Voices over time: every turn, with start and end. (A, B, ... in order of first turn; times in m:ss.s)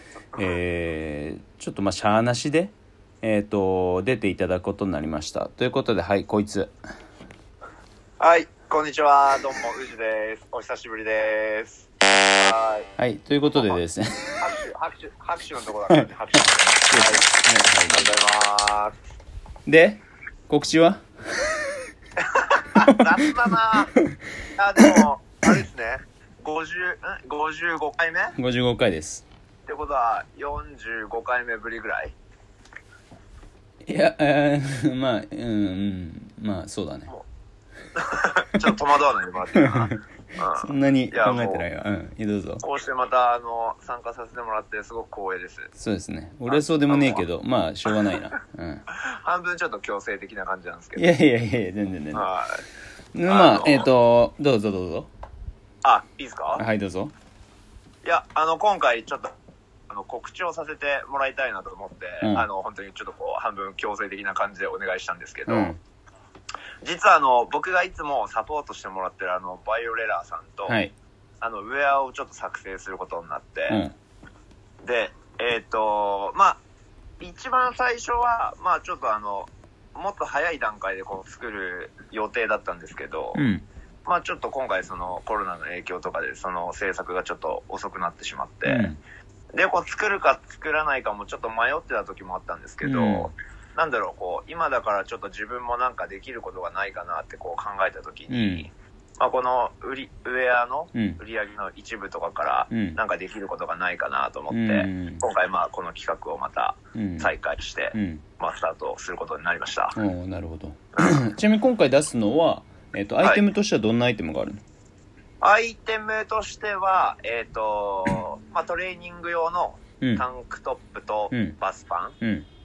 0:00.4-0:06.7 A
0:08.2-0:12.9 B
0:13.0-0:14.3 A
0:14.4-0:17.3 B
0:15.9-0:18.1 A
0:17.9-0:18.9 B
0:19.7-0:21.0 A
0:22.2-0:23.9 B
0:24.6-0:28.4 B
0:28.4-0:29.2 A
0:29.7-0:32.1 B
0:33.9-0:37.1 A
0:38.0-0:41.7 B
0:39.6-0:40.0 A
0:40.6-0:42.6 A
0:42.6-0:45.7 B
0:45.8-0:48.8 A
0:46.5-0:47.2 B
0:49.0-0:51.1 B
0:51.0-0:52.3 A
0:52.1-0:52.6 B
0:53.2-0:55.1 A
0:53.3-0:53.9 B
0:55.8-0:56.6 B
0:56.6-0:57.1 A
0:58.0-0:59.3 B
0:59.9-1:05.7 B
1:05.5-1:05.8 A
1:06.8-1:10.8 B
1:10.7-1:10.9 A
1:11.4-1:13.8 B
1:13.7-1:14.0 A
1:14.8-1:16.6 B
1:17.2-1:23.4 B
1:23.4-1:23.6 A
1:24.1-1:28.9 B
1:28.7-1:29.0 A
1:29.5-1:50.0 B
1:32.8-1:33.3 A
1:38.3-1:38.7 A
1:42.7-1:43.0 A
1:44.5-1:45.2 A
1:47.0-1:47.3 A
1:47.9-1:48.2 A
1:50.0-1:54.6 A
1:55.4-2:02.2 B
2:01.3-2:01.6 A
2:02.2-2:02.5 A